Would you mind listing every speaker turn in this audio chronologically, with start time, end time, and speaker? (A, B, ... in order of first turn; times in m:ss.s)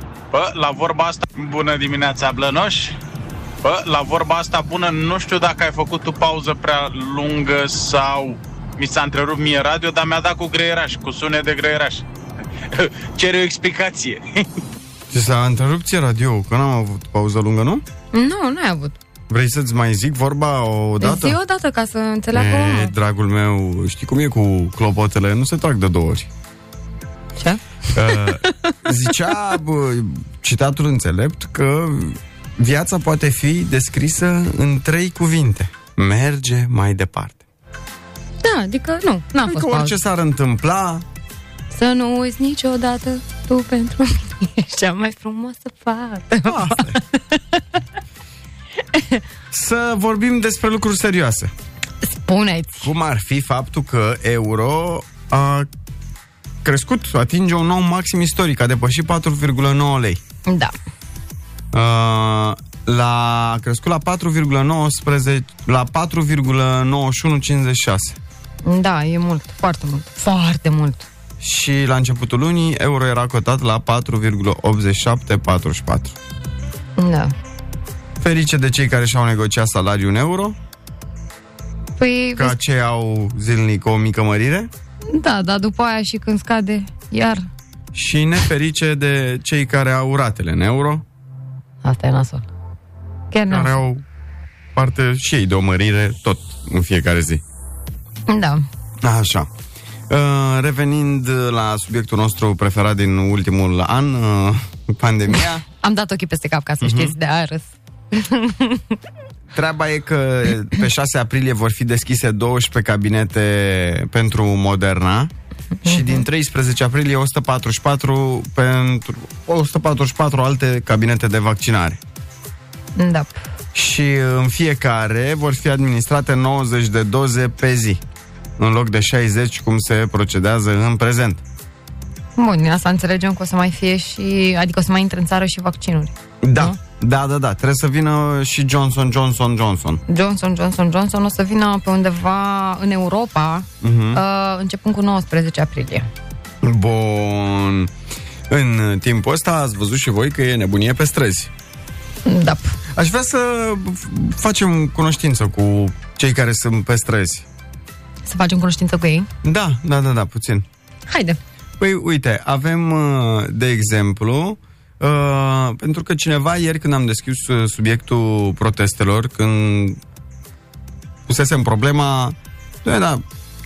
0:00.3-0:02.9 A
0:03.6-0:12.0 A
0:12.7-0:14.4 A
0:15.1-0:17.8 B
0:18.1-0:19.0 C
0:19.3-0:21.4 B
0:21.0-0:22.9 C
0:22.3-0:26.3 B
0:27.4-0:28.7 C
0:27.9-0:37.4 B
0:38.4-0:40.0 C
0:39.4-0:41.0 B
0:41.7-0:47.8 C
0:46.4-0:47.0 B
0:48.9-0:49.2 C
0:49.5-0:51.5 B
0:52.0-0:52.9 C
0:52.8-0:55.7 B
0:56.6-1:00.2 B
1:00.4-1:00.7 C
1:01.7-1:08.2 B
1:08.6-1:11.1 C
1:11.4-1:16.2 B
1:17.0-1:17.3 C
1:18.2-1:20.6 B
1:22.0-1:22.6 C
1:22.4-1:24.7 B
1:25.1-1:27.4 C
1:27.9-1:31.0 B
1:31.8-1:32.5 C
1:33.3-1:33.8 C
1:33.5-1:34.0 B
1:34.7-1:37.4 B
1:38.3-1:38.6 C
1:39.0-1:39.5 B
1:40.1-1:45.6 B
1:45.7-1:49.0 C
1:46.8-1:47.2 B
1:49.5-1:55.3 B
1:55.8-1:56.2 C
1:55.8-2:02.0 B
2:03.0-2:03.4 C
2:03.7-2:08.0 B
2:08.6-2:11.4 B
2:12.4-2:16.8 C
2:16.4-2:20.0 B
2:20.1-2:26.1 C
2:23.8-2:24.2 B
2:26.6-2:27.9 B
2:28.5-2:31.5 B
2:32.2-2:32.8 C
2:32.9-2:37.4 B
2:38.2-2:39.3 C
2:39.4-2:40.6 B
2:41.1-2:41.4 C
2:41.8-2:50.0 B
2:51.3-2:53.2 B